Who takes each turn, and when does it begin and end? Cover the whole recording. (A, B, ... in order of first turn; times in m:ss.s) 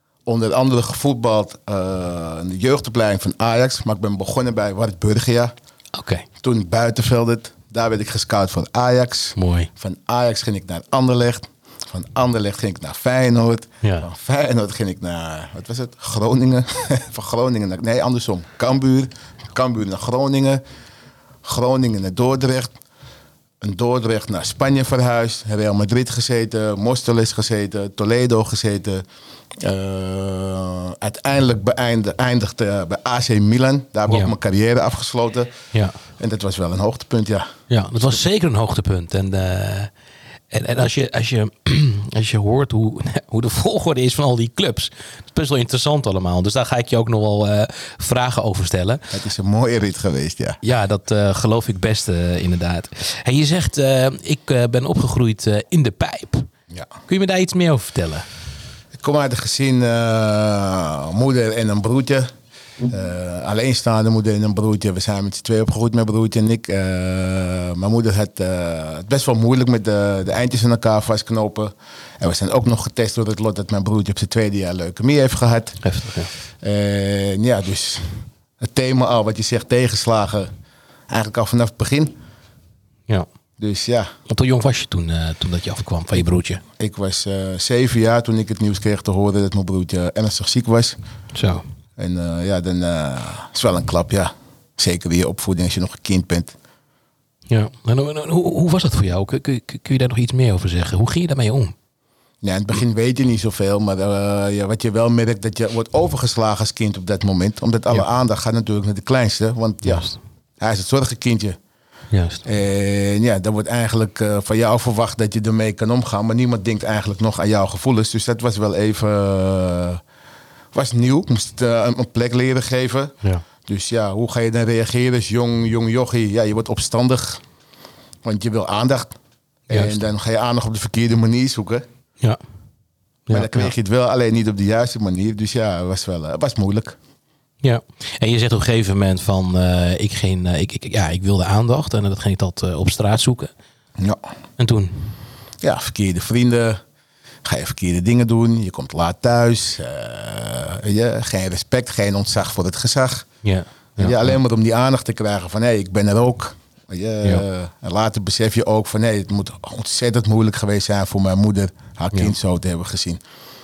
0:00.2-0:05.5 A
0:05.9-0:06.2 B
0:06.4-0:20.6 A
0:09.4-0:09.7 B
0:13.8-0:14.1 B
0:21.4-0:22.7 A
0:23.6-0:29.0 A
0:29.6-0:35.5 A
0:34.1-0:34.3 B
0:36.2-0:38.2 A
0:37.7-0:39.9 B
0:40.5-0:49.1 B
0:49.1-0:50.6 A
0:50.6-0:56.5 B
0:57.1-0:58.2 B
0:58.9-1:02.3 A
1:02.8-1:15.8 A
1:15.8-1:16.3 B
1:16.6-1:20.5 A
1:21.1-1:22.2 A
1:23.6-1:24.1 A
1:24.3-1:26.6 B
1:26.8-1:31.0 A
1:31.3-1:31.6 B
1:32.0-1:36.5 A
1:37.5-1:41.7 B
1:42.4-1:50.1 A
1:49.8-1:50.2 B
1:50.6-1:51.6 A
1:52.1-1:52.4 B
1:52.4-2:00.0 A
2:00.7-2:07.4 A
2:08.2-2:09.1 A
2:09.7-2:10.0 B
2:09.7-2:11.8 A
2:13.3-2:13.7 B
2:13.3-2:17.0 A
2:17.6-2:23.5 B
2:24.0-2:24.3 A
2:24.6-2:25.1 B
2:25.6-2:26.8 A
2:27.4-2:33.3 A
2:33.4-2:34.3 B
2:34.0-2:43.2 A